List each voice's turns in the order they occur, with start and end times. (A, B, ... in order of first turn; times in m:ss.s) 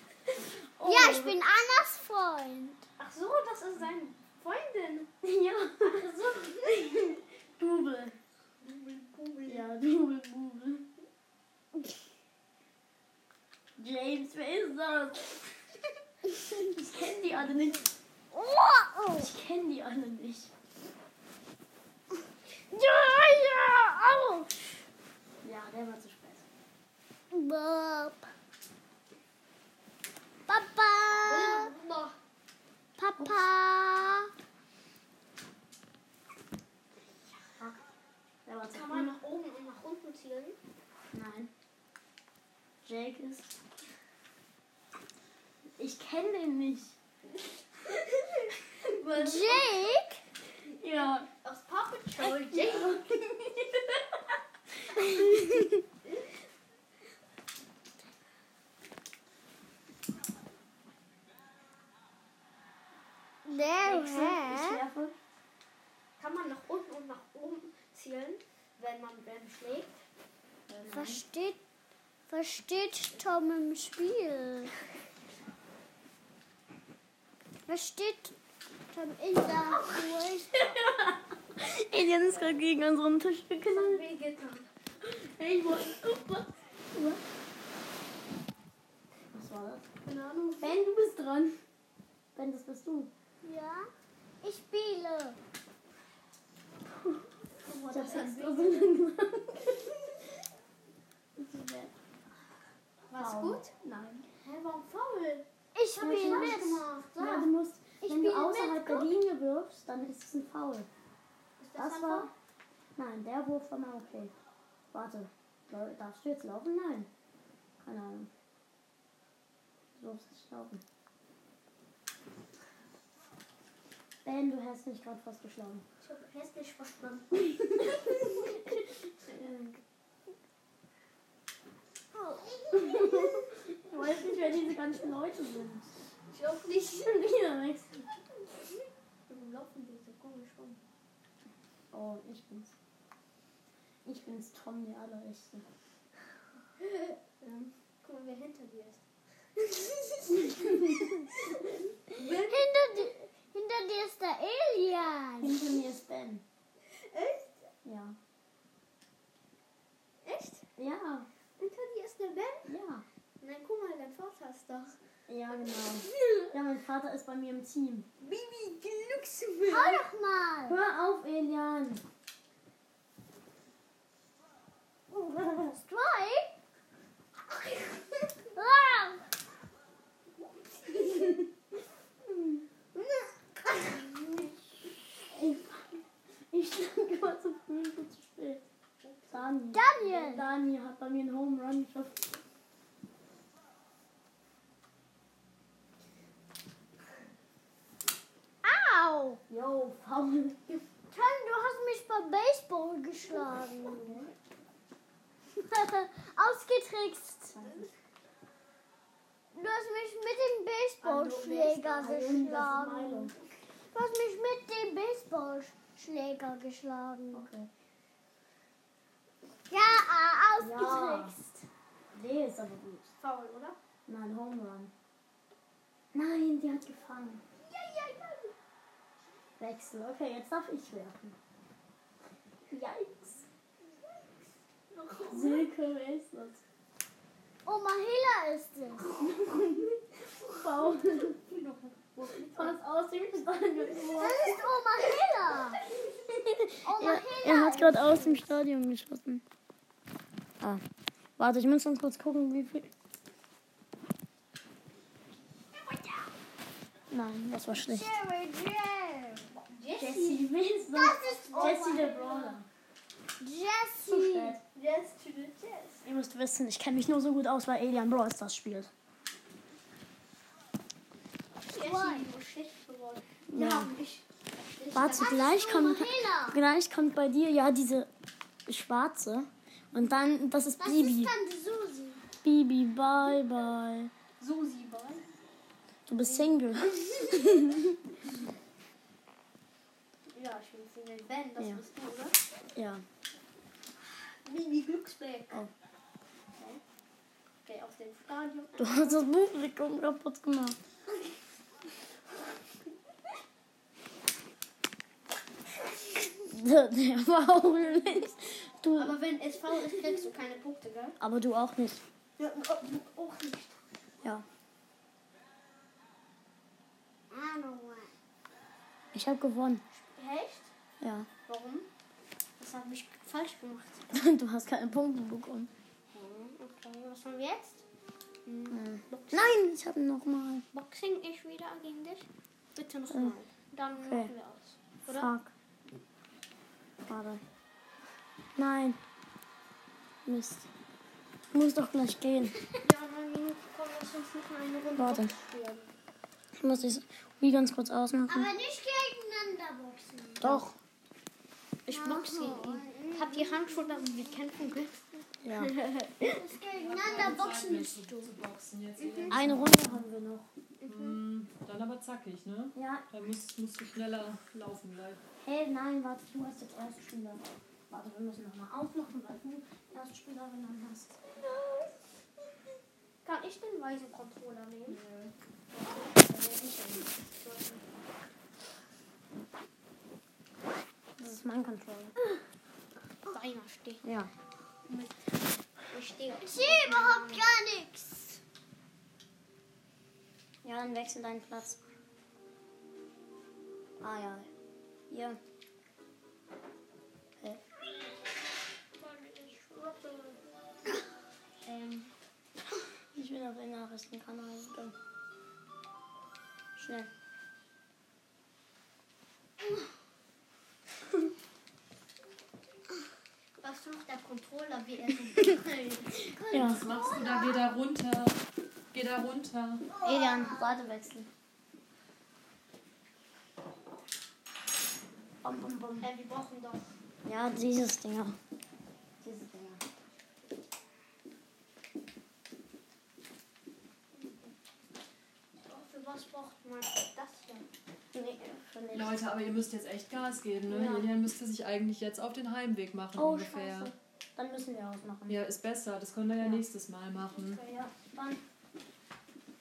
0:00.4-0:01.4 A
0:00.8-0:02.9 B
0:03.0-0:05.1 C
0:05.2-0:08.2 A
0:05.8-0:07.1 C
0:08.6-0:09.7 C
0:09.5-0:10.9 A
0:13.8-0:15.5 A
0:16.6-0:17.9 A
0:18.3-0:19.3 B
0:19.2-0:20.5 A
0:22.7-0:24.7 B
0:25.4-0:26.4 A
0:27.3-0:28.3 B
0:30.5-0:31.7 B
0:31.2-0:32.2 C
0:33.0-0:34.3 B
0:33.2-0:33.4 A
0:38.5-0:39.1 A
0:38.7-0:40.6 C
0:41.1-0:41.5 A
0:42.8-0:43.5 A
0:45.8-0:47.0 A
0:47.8-0:50.1 C
0:49.2-0:50.2 B
0:50.7-0:53.0 C
0:50.8-0:51.3 A
0:52.5-0:53.6 A
0:55.0-0:55.3 B
1:03.4-1:04.8 B
1:03.8-1:05.2 A
1:06.2-1:10.0 C
1:10.7-1:11.2 A
1:10.9-1:11.6 B
1:12.3-1:14.7 B
1:17.7-1:18.4 B
1:18.9-1:20.8 B
1:20.5-1:24.0 A
1:23.7-1:24.7 C
1:25.0-1:27.2 A
1:29.3-1:29.8 A
1:30.0-1:30.8 C
1:30.6-1:31.6 A
1:32.4-1:33.1 A
1:33.4-1:33.9 B
1:34.4-1:35.4 B
1:37.0-1:37.2 A
1:37.6-1:38.9 C
1:37.8-1:39.9 A
1:41.4-1:41.9 A
1:43.1-1:43.7 C
1:43.2-1:44.3 A
1:44.4-1:45.5 C
1:45.7-1:46.8 B
1:46.0-1:50.9 A
1:46.2-1:47.5 C
1:48.0-1:49.1 C
1:51.6-1:52.3 C
1:51.8-1:52.3 A
1:53.0-1:54.3 A
1:54.9-1:57.1 A
1:57.8-1:58.3 A
2:00.0-2:00.8 A
2:04.2-2:05.8 A
2:06.0-2:08.6 C
2:08.2-2:08.7 A
2:09.3-2:09.8 A
2:12.2-2:13.4 C
2:12.7-2:15.9 A
2:16.3-2:17.2 C
2:16.7-2:18.0 A
2:19.3-2:20.8 C
2:21.9-2:22.7 A
2:24.0-2:25.6 A
2:26.8-2:29.0 C
2:29.6-2:33.0 C
2:32.4-2:35.6 B
2:35.4-2:36.4 A
2:36.9-2:37.5 C
2:37.8-2:38.2 A
2:40.2-2:40.6 C
2:40.8-2:41.3 A
2:41.6-2:42.7 C
2:42.7-2:43.0 A
2:43.4-2:45.0 C
2:45.3-2:48.1 A
2:48.2-2:50.0 C
2:49.7-2:50.8 B
2:50.7-2:52.0 A
2:55.1-2:56.5 B
2:57.5-2:58.1 C
2:58.6-2:59.3 B
3:00.9-3:01.4 C
3:02.9-3:04.2 C
3:05.3-3:08.7 A
3:09.0-3:09.8 C
3:09.3-3:12.2 A
3:09.7-3:10.5 B
3:18.6-3:19.4 B
3:19.5-3:20.8 A
3:21.1-3:24.0 B
3:23.8-3:24.3 A
3:25.5-3:27.6 B
3:27.6-3:27.8 A
3:27.6-3:27.9 C
3:29.5-3:33.3 B
3:31.0-3:32.3 C
3:31.9-3:33.3 A
3:33.9-3:37.5 B
3:37.3-3:37.7 A
3:39.7-3:41.6 B
3:40.6-3:41.4 A
3:42.1-3:43.1 A
3:43.2-3:43.8 C
3:44.1-3:44.9 A
3:46.1-3:47.4 A
3:47.6-3:48.5 C
3:49.6-3:51.4 A
3:52.7-3:53.5 A
3:54.9-3:55.6 C
3:55.3-3:56.6 A
3:57.6-3:59.1 B
3:59.2-4:01.4 A
4:00.9-4:02.8 C
4:02.5-4:04.5 A
4:04.1-4:05.8 B
4:06.4-4:09.4 A
4:06.8-4:08.5 B
4:11.4-4:12.9 A
4:15.8-4:16.2 C
4:17.1-4:18.2 A
4:17.9-4:19.5 B
4:19.5-4:20.4 C
4:20.0-4:22.7 A
4:20.9-4:22.2 B
4:21.3-4:22.6 C
4:23.4-4:24.6 B
4:24.0-4:24.6 A
4:24.7-4:26.0 C
4:26.0-4:28.9 A
4:31.7-4:35.9 C
4:31.7-4:32.3 B
4:33.5-4:33.9 A
4:34.9-4:38.1 A
4:35.1-4:36.6 B
4:38.7-4:41.3 A
4:40.8-4:42.2 B
4:42.4-4:44.1 A
4:44.4-4:45.3 C
4:46.1-4:48.0 A
4:46.1-4:47.8 C
4:50.3-4:52.4 C
4:52.8-4:53.0 A
4:54.1-4:55.6 C
4:56.6-4:56.8 C
4:57.6-4:59.2 C
4:58.8-5:00.8 A
5:06.5-5:09.2 A
5:09.0-5:11.2 C
5:11.2-5:12.0 A
5:12.4-5:13.8 C
5:17.3-5:18.1 B
5:19.1-5:19.8 A
5:19.9-5:20.7 C
5:21.0-5:21.3 A
5:21.5-5:21.9 C
5:22.6-5:24.1 C
5:24.1-5:25.7 A
5:26.1-5:27.8 C
5:28.5-5:29.6 C
5:28.7-5:30.6 A
5:30.7-5:35.3 C
5:34.0-5:34.3 A
5:35.1-5:35.5 A
5:37.1-5:37.4 A
5:38.6-5:39.0 A
5:40.3-5:40.7 A
5:41.5-5:42.6 A
5:42.8-5:45.9 C
5:45.0-5:45.3 A
5:46.6-5:48.5 A
5:48.3-5:50.6 B
5:50.4-5:50.8 A
5:51.9-5:56.4 C
5:51.9-5:54.2 B
5:55.4-5:55.7 A
5:56.2-5:58.3 B
5:56.7-6:00.0 D
5:59.0-5:59.3 C
5:59.3-6:00.5 A
6:00.8-6:05.2 D
6:00.9-6:01.1 C
6:02.8-6:03.1 A
6:05.4-6:11.2 A
6:11.3-6:12.0 C
6:13.2-6:15.0 C
6:14.9-6:15.3 A
6:15.7-6:16.4 C
6:16.3-6:17.0 A
6:16.9-6:17.8 C
6:21.2-6:22.2 A
6:23.3-6:24.0 C
6:24.0-6:24.3 A
6:24.9-6:27.5 C
6:26.5-6:28.4 B
6:30.6-6:31.8 A
6:34.0-6:34.5 A
6:35.1-6:35.4 A
6:39.0-6:40.4 C
6:41.6-6:42.1 C
6:43.1-6:45.0 A
6:46.8-6:47.1 A
6:53.6-6:56.3 C
6:56.4-6:57.7 B
6:56.5-6:56.8 A
6:56.6-6:58.4 D
6:58.9-6:59.9 D
6:59.9-7:00.8 B
7:00.0-7:01.3 A
7:05.4-7:06.1 A
7:06.0-7:07.0 C
7:07.2-7:08.4 A
7:09.2-7:09.8 A
7:14.1-7:14.5 C
7:15.7-7:17.7 C
7:18.1-7:19.3 A
7:18.9-7:23.9 D
7:20.7-7:21.2 A
7:23.2-7:25.4 A
7:25.3-7:27.6 D
7:27.2-7:27.9 C
7:27.6-7:28.4 A